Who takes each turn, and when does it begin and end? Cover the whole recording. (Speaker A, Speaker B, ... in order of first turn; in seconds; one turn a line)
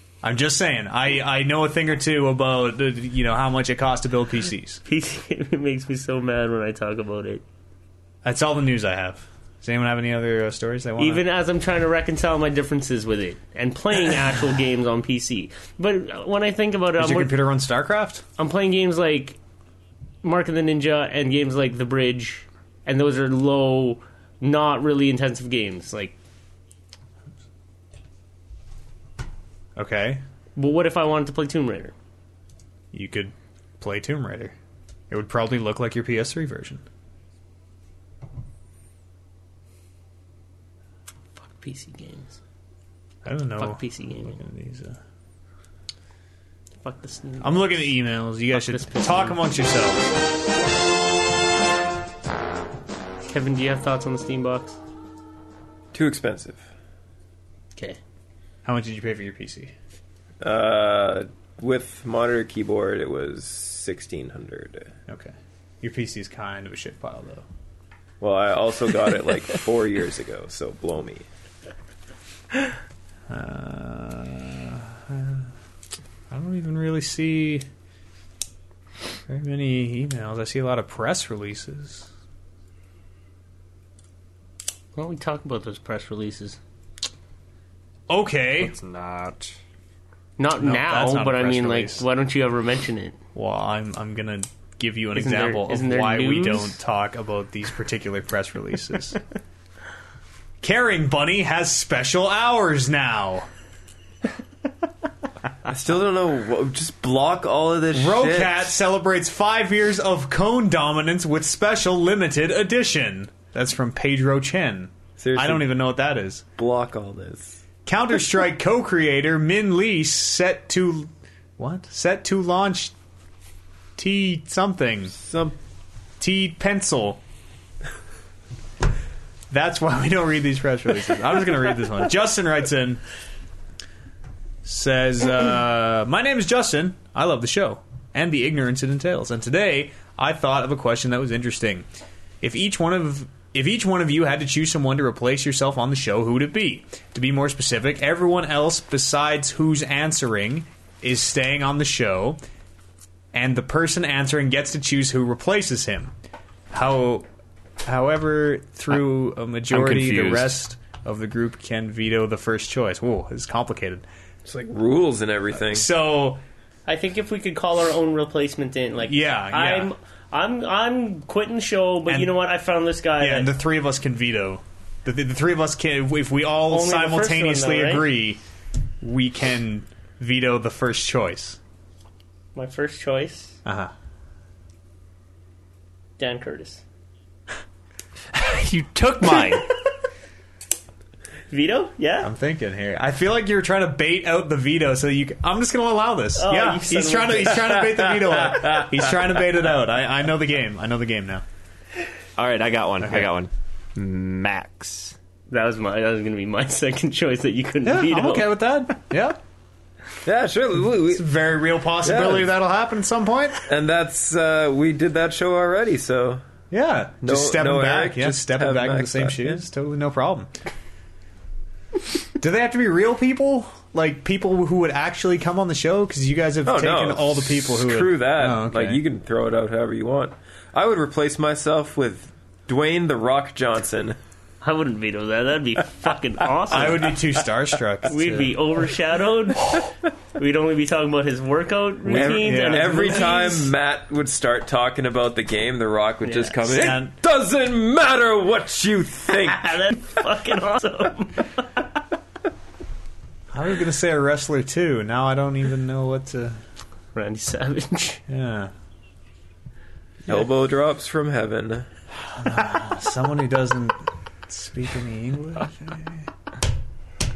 Speaker A: 0.2-4.8
Speaker B: 4.8-7.4
Speaker A: 8.2-11.2
Speaker B: 11.0-17.4
Speaker A: 17.0-18.2
Speaker B: 18.4-19.4
Speaker B: 20.2-26.2
Speaker A: 29.8-30.2
Speaker B: 30.6-31.9
Speaker A: 32.9-34.5
Speaker A: 35.1-36.8
Speaker B: 41.4-42.4
Speaker A: 43.2-45.0
Speaker B: 43.6-44.4
Speaker B: 46.8-48.0
Speaker A: 47.4-50.0
Speaker B: 48.5-49.4
Speaker B: 53.3-54.8
Speaker C: 55.9-56.7
Speaker A: 58.6-59.7
Speaker C: 60.4-64.9
Speaker A: 65.1-67.5
Speaker C: 68.2-71.3
Speaker A: 73.3-75.5
Speaker A: 76.3-77.7
Speaker A: 79.3-82.1
Speaker B: 85.0-86.6
Speaker A: 88.1-88.8
Speaker D: 88.6-89.6
Speaker B: 90.4-93.2
Speaker A: 90.6-92.1
Speaker A: 93.3-99.2
Speaker B: 95.1-96.8
Speaker A: 100.6-103.5
Speaker C: 105.7-108.7
Speaker A: 107.9-116.4
Speaker C: 115.2-115.7
Speaker C: 116.6-117.6
Speaker A: 117.8-122.9
Speaker A: 124.0-125.2
Speaker C: 125.2-125.5
Speaker A: 126.2-127.2
Speaker A: 129.5-133.0
Speaker A: 134.6-141.9
Speaker A: 142.4-152.4
Speaker A: 153.3-156.1
Speaker A: 156.7-157.3
Speaker A: 157.8-164.0
Speaker D: 159.7-160.6
Speaker C: 164.4-165.9
Speaker A: 165.6-166.4
Speaker B: 166.9-173.5
Speaker A: 169.1-169.9
Speaker A: 172.1-172.3
Speaker A: 173.2-178.4
Speaker B: 176.7-178.1
Speaker A: 179.0-181.6
Speaker B: 182.6-183.6
Speaker A: 183.7-183.9
Speaker B: 186.2-186.8
Speaker D: 188.3-189.8
Speaker B: 191.5-192.3
Speaker A: 192.2-201.4
Speaker B: 196.4-198.0
Speaker D: 202.4-205.2
Speaker A: 203.0-203.3
Speaker B: 205.5-208.6
Speaker A: 207.8-209.4
Speaker C: 210.2-211.3
Speaker A: 211.1-213.6
Speaker C: 212.0-212.5
Speaker C: 213.6-216.4
Speaker A: 216.7-220.5
Speaker C: 217.2-219.6
Speaker A: 222.4-229.0
Speaker C: 226.7-234.2
Speaker B: 234.6-237.1
Speaker A: 236.7-238.6
Speaker B: 238.1-243.7
Speaker C: 242.1-250.0
Speaker A: 242.1-243.3
Speaker B: 246.2-246.9
Speaker A: 246.7-247.2
Speaker B: 249.3-251.8
Speaker A: 253.5-256.6
Speaker B: 257.1-258.2
Speaker A: 258.3-258.7
Speaker C: 260.3-261.9
Speaker A: 262.4-266.3